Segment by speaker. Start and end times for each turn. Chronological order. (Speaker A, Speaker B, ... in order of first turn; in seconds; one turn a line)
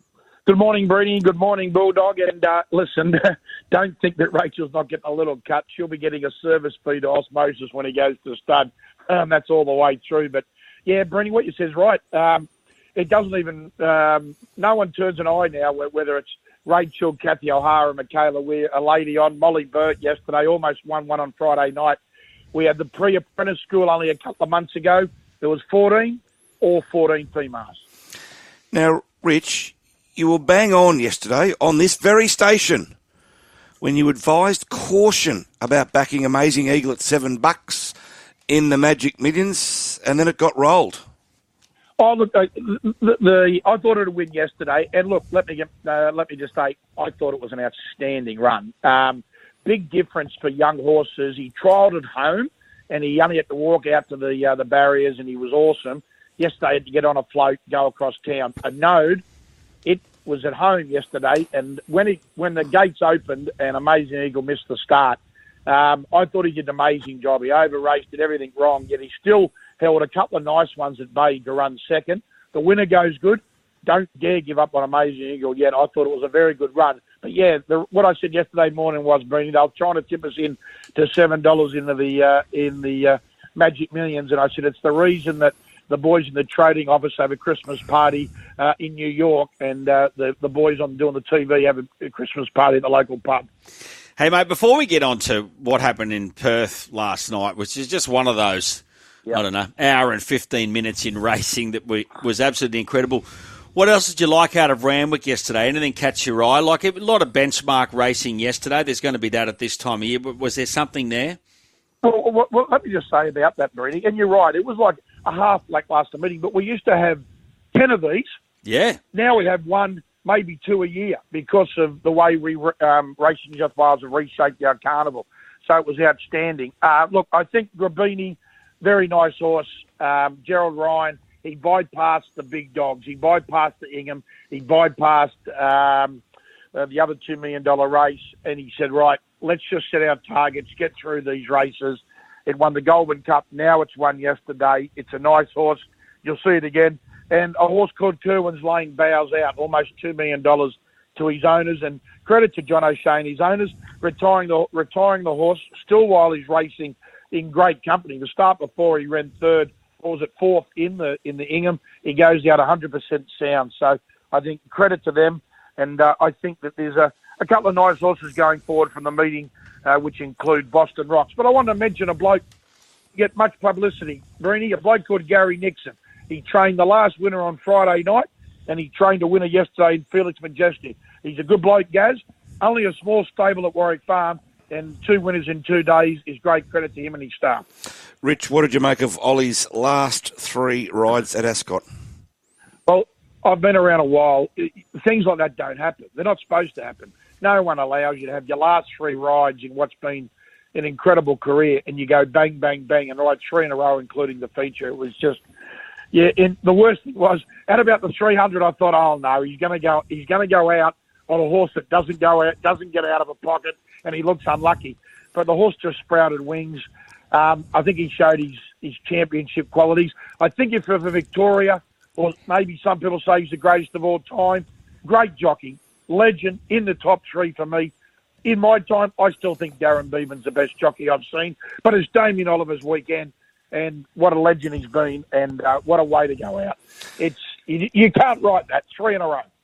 Speaker A: 0.5-22.0
Speaker A: 22.5-27.8
Speaker B: 28.7-32.9
Speaker B: 33.8-38.0
Speaker B: 38.5-41.0
Speaker A: 42.0-59.2
Speaker A: 59.9-93.5
Speaker C: 94.2-111.4
Speaker A: 112.0-118.3
Speaker C: 118.6-119.0
Speaker A: 119.1-136.2
Speaker A: 136.7-172.4
Speaker A: 173.2-187.7
Speaker B: 188.2-191.8
Speaker A: 192.9-205.4
Speaker A: 206.1-227.9
Speaker A: 228.4-239.5